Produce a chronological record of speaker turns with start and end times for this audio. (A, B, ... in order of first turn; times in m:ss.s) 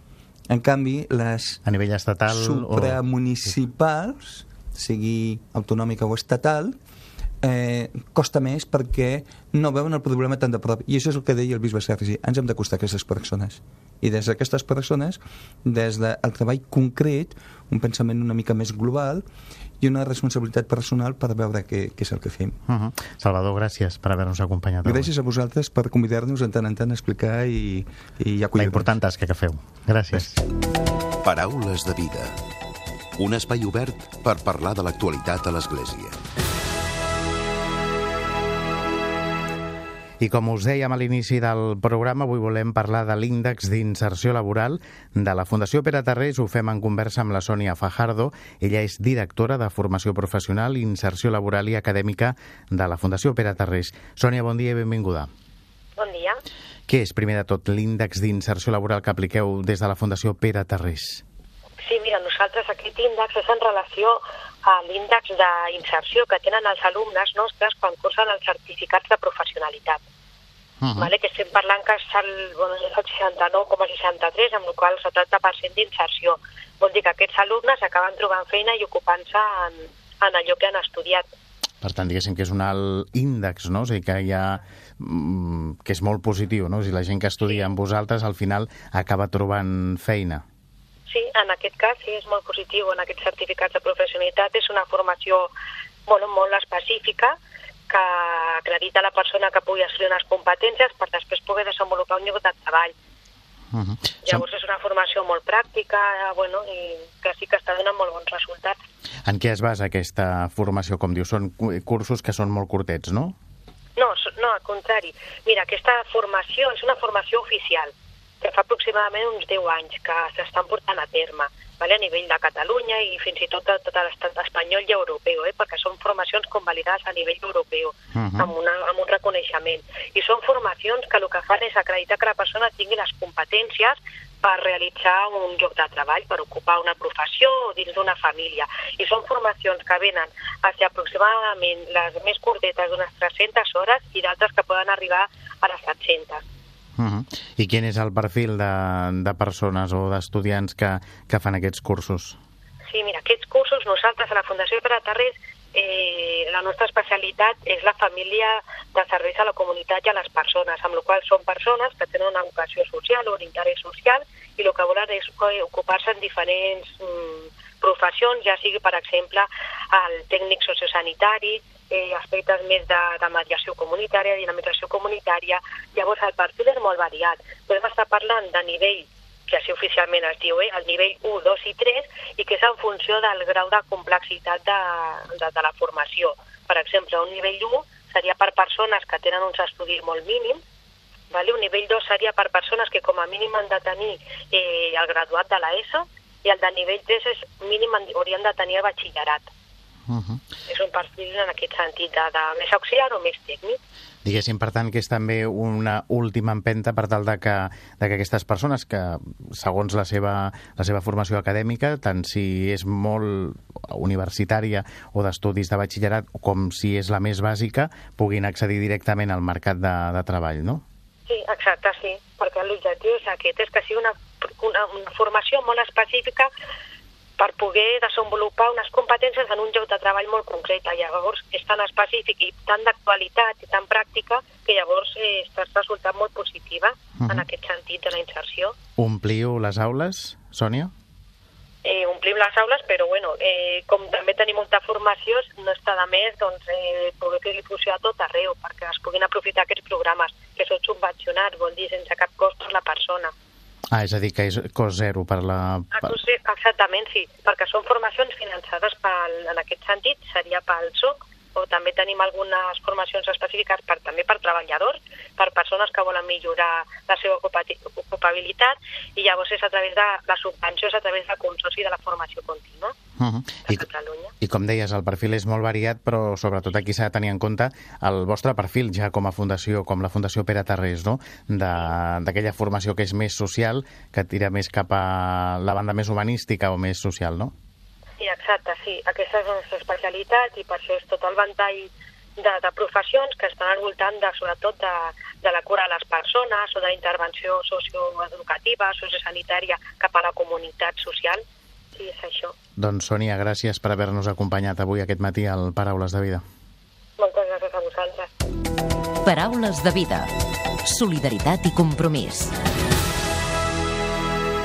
0:00.5-0:01.6 A
0:01.6-0:03.0 B
0:02.3-0:06.8 A
0:07.4-0:19.2 A
0:19.8-0:22.6 A
0:22.7-0:25.1 B
0:24.8-0:28.9 A
0:28.6-0:30.4 B
0:31.2-0:32.4 C
0:33.2-0:36.2 C
0:40.2-0:55.3 B
0:56.0-0:56.4 D
0:56.9-1:01.2 B
1:01.8-1:10.0 D
1:10.8-1:11.1 B
1:11.0-1:21.3 D
1:21.8-1:30.4 B
1:31.1-1:35.5 D
1:36.1-1:37.4 D
1:37.9-1:42.9 D
1:43.7-1:44.4 B
1:44.2-1:48.8 D
1:49.2-1:53.4 B
1:54.0-2:26.4 D
2:08.1-2:08.5 B
2:27.0-2:32.4 B
2:32.9-3:10.6 D
3:11.3-3:19.5 D
3:20.1-3:20.4 B
3:20.7-3:23.8 D
3:24.2-3:40.8 B
3:41.3-3:46.5 D
3:47.4-3:58.8 D
3:57.2-3:57.4 B
3:59.0-4:00.9 B
4:01.8-4:13.3 D
4:13.9-4:16.2 B
4:15.9-4:32.9 D
4:33.2-4:33.8 B
4:33.6-4:34.3 D
4:34.4-4:47.5 B
4:48.2-5:01.4 D
5:01.9-5:02.5 D
5:02.8-5:06.4 B
5:07.2-5:08.3 D
5:09.2-5:10.3 E
5:10.8-5:12.5 E